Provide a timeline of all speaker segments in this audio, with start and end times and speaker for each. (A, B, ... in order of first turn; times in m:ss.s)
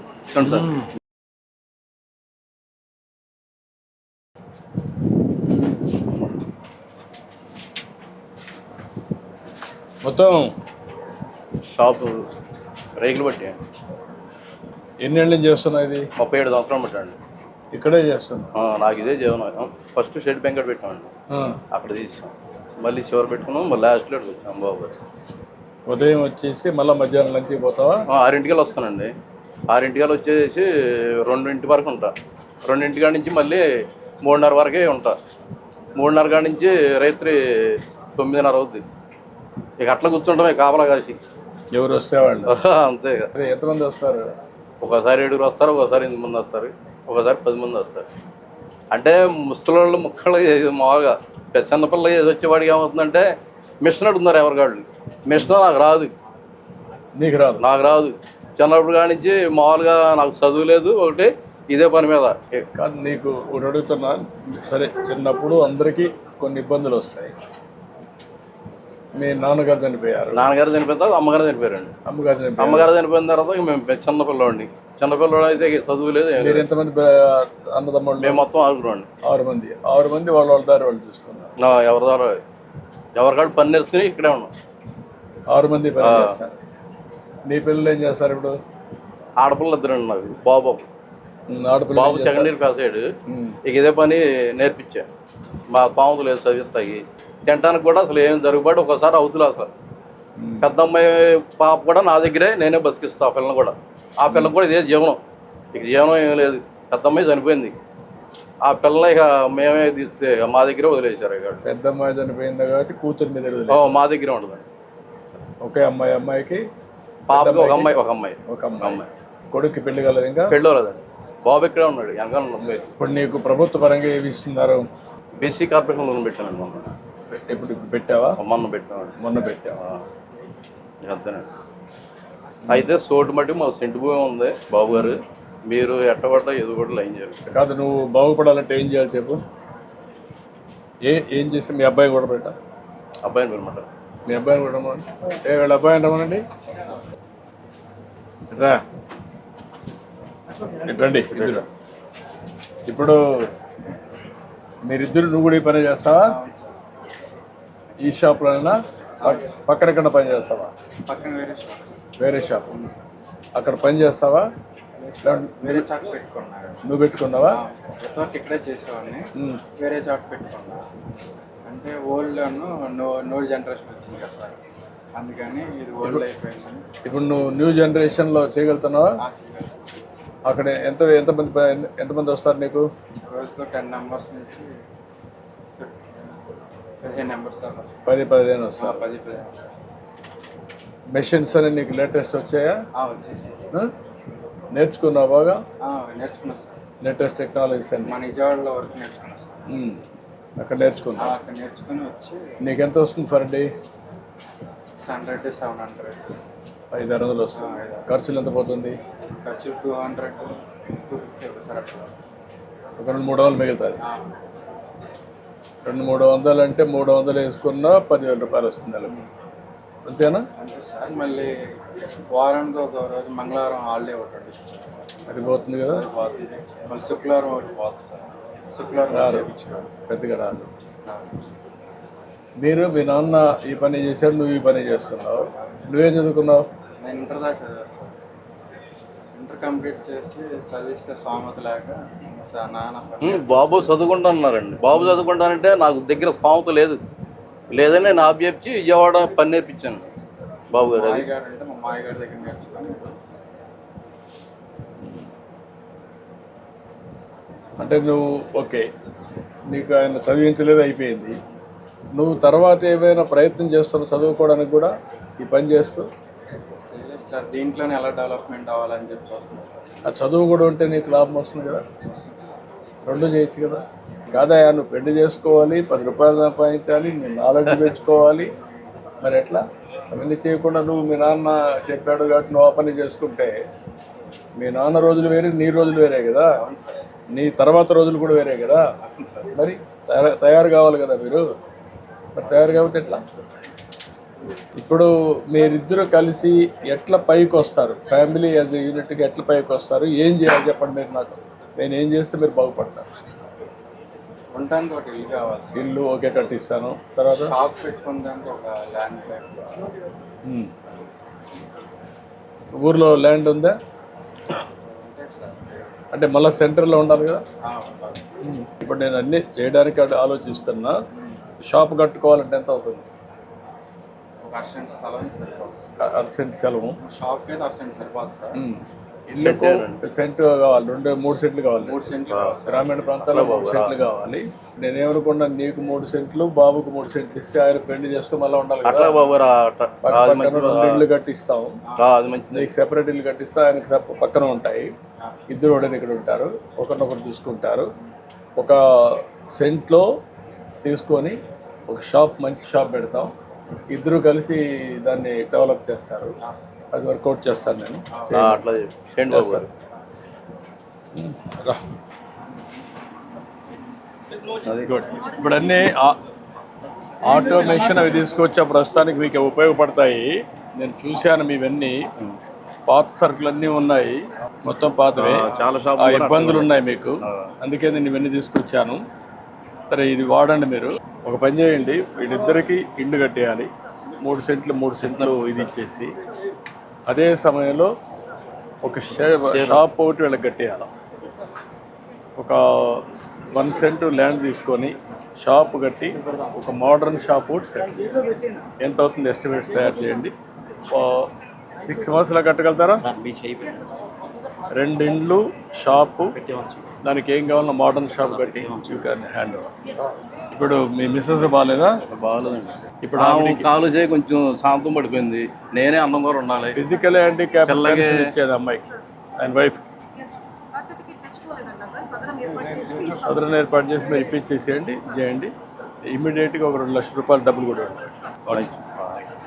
0:00.3-0:00.8 A
0:00.4-0:00.9 B
0:10.0-0:10.5 B
0:11.6-0:12.3 A
0:13.0-0:13.6 A
0:15.0-0:16.1 B
0:16.2-0:17.2 A
0:17.7-0:18.5 B
0:18.6-0:21.1 A
0:21.3-0:21.6 B
0:21.7-0:25.0 A
0:25.9-0:28.0 B
0:28.1-0:29.1 A
0:29.7-0:32.1 A
0:32.6-0:33.6 A
0:34.2-0:35.2 A
0:36.0-0:38.8 A
0:39.8-0:41.2 A
0:41.7-0:42.6 B
0:42.5-0:43.3 A
0:43.3-0:44.3 B
0:44.8-0:48.1 A
0:48.9-0:53.3 A
0:53.8-0:56.1 A
0:57.2-0:57.6 B
0:57.6-1:02.4 A
1:02.7-1:07.3 B
1:09.2-1:10.5 B
1:10.3-1:11.9 A
1:12.1-1:12.9 B
1:12.6-1:16.7 A
1:16.4-1:18.4 B
1:18.2-1:19.1 A
1:19.2-1:21.5 B
1:21.6-1:22.4 A
1:23.2-1:24.5 A
1:25.5-1:26.5 B
1:26.0-1:26.4 A
1:27.5-1:28.6 B
1:29.4-1:30.9 A
1:31.5-1:32.5 B
1:32.0-1:33.1 A
1:33.3-1:33.6 B
1:33.6-1:35.1 A
1:35.7-1:39.7 A
1:40.4-1:40.7 B
1:40.6-1:45.2 A
1:45.7-1:47.8 A
1:48.6-1:51.6 A
1:51.6-1:54.0 B
1:53.7-1:54.6 A
1:55.6-1:56.6 B
1:57.3-1:59.0 B
1:57.3-1:59.1 A
1:59.5-2:00.5 B
2:00.5-2:02.9 A
2:03.0-2:04.9 B
2:05.4-2:06.9 A
2:07.3-2:08.4 B
2:08.4-2:09.1 A
2:09.2-2:09.8 B
2:09.8-2:10.0 A
2:11.0-2:11.5 A
2:12.7-2:17.4 A
2:14.9-2:15.2 B
2:17.5-2:19.4 B
2:21.0-2:22.6 B
2:23.2-2:23.9 A
2:24.3-2:26.4 B
2:28.5-2:28.8 B
2:30.8-2:31.7 B
2:31.4-2:31.6 A
2:32.9-2:33.2 B
2:34.9-2:36.4 B
2:36.3-2:36.8 C
2:38.0-2:40.7 B
2:41.1-2:41.9 C
2:42.2-2:42.8 B
2:43.6-2:44.5 B
2:45.0-2:46.8 C
2:45.2-2:45.9 B
2:46.8-2:47.6 B
2:47.5-2:50.8 C
2:49.4-2:49.6 B
2:51.6-2:54.6 C
2:55.2-2:56.8 C
2:57.0-2:59.2 B
2:59.2-2:59.8 C
3:00.4-3:02.9 B
3:03.3-3:04.7 C
3:05.8-3:06.3 C
3:07.0-3:08.0 C
3:08.1-3:09.0 B
3:08.8-3:09.7 C
3:11.1-3:12.8 B
3:13.0-3:13.7 C
3:14.7-3:15.6 B
3:15.8-3:16.8 C
3:17.0-3:18.2 B
3:18.0-3:19.6 C
3:19.7-3:20.0 B
3:20.6-3:21.4 B
3:21.2-3:22.6 C
3:22.6-3:23.7 B
3:24.9-3:26.3 C
3:26.9-3:29.0 B
3:27.6-3:28.1 C
3:29.4-3:32.2 C
3:33.0-3:34.0 B
3:34.0-3:34.4 C
3:35.8-3:39.1 B
3:40.1-3:40.5 B
3:40.6-3:41.5 C
3:42.3-3:44.7 C
3:45.3-3:46.1 B
3:45.9-3:49.9 C
3:49.1-3:49.5 B
3:50.1-3:50.7 B
3:51.0-3:51.3 C
3:52.6-3:56.6 B
3:57.0-3:58.1 C
3:59.4-4:03.7 C
4:03.2-4:07.0 A
4:07.7-4:10.1 A
4:10.7-4:11.3 A
4:11.1-4:13.1 C
4:17.8-4:18.9 B
4:19.7-4:21.4 B
4:22.2-4:26.1 B
4:26.9-4:29.9 C
4:30.0-4:31.9 B
4:32.0-4:32.4 C
4:33.0-4:38.5 B
4:39.2-4:43.6 B
4:44.6-4:46.6 B
4:46.6-4:47.0 C
4:47.4-4:48.8 B
4:49.0-4:49.5 C
4:49.5-4:51.5 B
4:52.4-4:53.2 B
4:54.8-5:03.1 B
5:04.5-5:05.8 C
5:05.8-5:07.6 B
5:07.4-5:09.8 C
5:10.5-5:10.7 B
5:12.8-5:13.8 B
5:14.8-5:15.9 C
5:16.1-5:17.4 B
5:17.6-5:18.2 C
5:18.4-5:21.0 B
5:21.7-5:23.1 B
5:24.4-5:25.8 C
5:26.0-5:27.0 B
5:27.0-5:28.6 C
5:28.6-5:32.1 B
5:29.4-5:30.0 A
5:31.9-5:33.1 C
5:32.3-5:32.6 A
5:32.7-5:39.2 B
5:33.2-5:34.0 A
5:38.8-5:41.1 A
5:40.0-5:41.8 B
5:42.0-5:42.7 A
5:42.5-5:44.9 B
5:45.5-5:47.9 B
5:49.6-5:50.1 B
5:50.8-5:51.4 B
5:51.9-5:53.3 B
5:53.9-5:56.4 B
5:56.9-5:58.6 B
5:58.3-5:59.7 A
5:59.3-5:59.7 B
6:01.2-6:01.8 B
6:04.6-6:05.0 A
6:04.7-6:06.2 B
6:07.2-6:12.0 B
6:12.9-6:19.0 B
6:15.2-6:17.5 A
6:19.9-6:23.7 B
6:24.2-6:26.1 B
6:25.0-6:25.7 A
6:27.1-6:27.9 B
6:28.8-6:30.9 B
6:29.5-6:29.8 A
6:32.4-6:40.3 B
6:40.9-6:43.0 B
6:43.2-6:43.6 D
6:44.7-6:46.4 B
6:47.0-6:49.7 B
6:50.5-6:52.0 B
6:52.1-6:56.8 A
6:53.0-6:53.7 B
6:56.8-6:59.8 B
6:57.7-6:58.3 A
7:00.8-7:03.0 D
7:03.1-7:08.7 B
7:08.5-7:09.2 A